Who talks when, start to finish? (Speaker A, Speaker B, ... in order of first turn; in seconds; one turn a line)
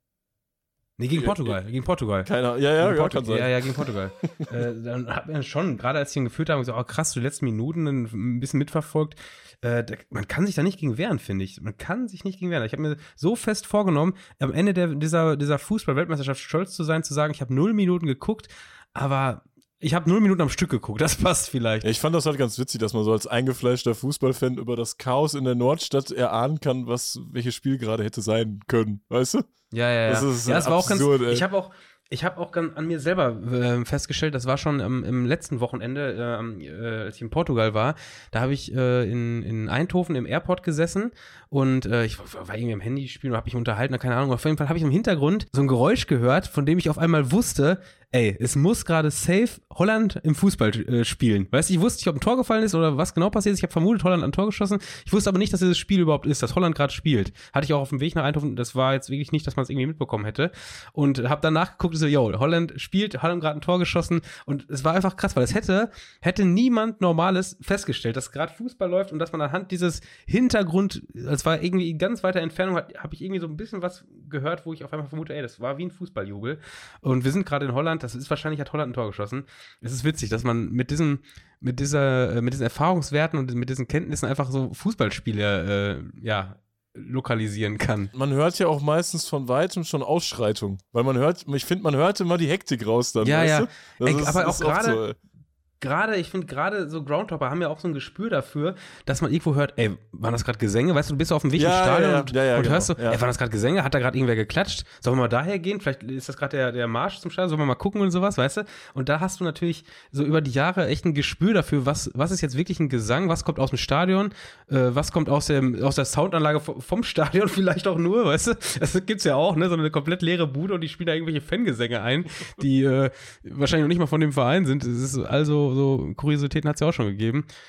Speaker A: 1.0-21.9
Speaker B: 1.1-1.5
Speaker B: 2.2-4.5
Speaker B: 21.8-29.5
Speaker A: 29.7-88.1
Speaker B: 30.1-31.4
Speaker B: 88.1-95.2
Speaker A: 93.2-95.0
Speaker A: 95.8-127.5
Speaker B: 101.5-103.2